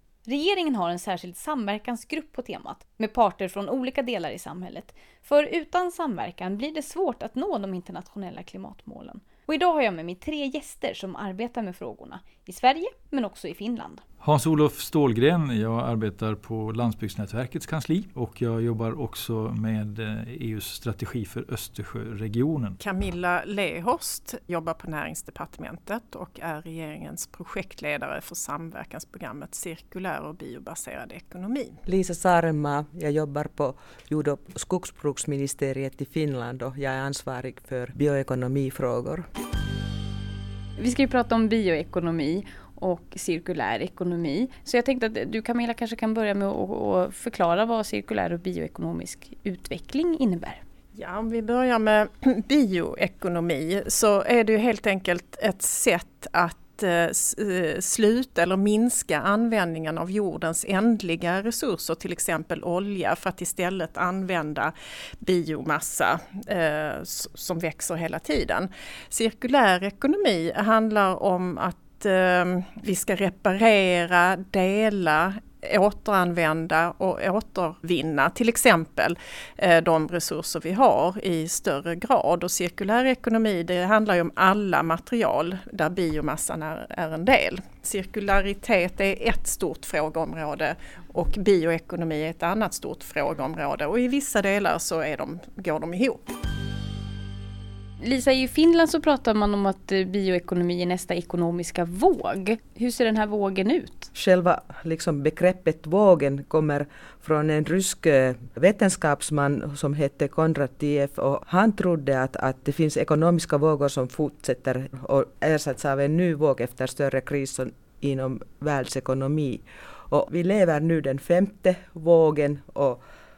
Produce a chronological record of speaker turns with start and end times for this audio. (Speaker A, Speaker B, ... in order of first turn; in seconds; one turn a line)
Speaker A: 0.3-14.0
Speaker B: 14.2-22.8
Speaker C: 22.8-31.8
Speaker D: 31.9-39.3
Speaker A: 40.8-50.6
Speaker C: 51.0-96.3
Speaker A: 98.0-104.1
Speaker D: 104.1-123.0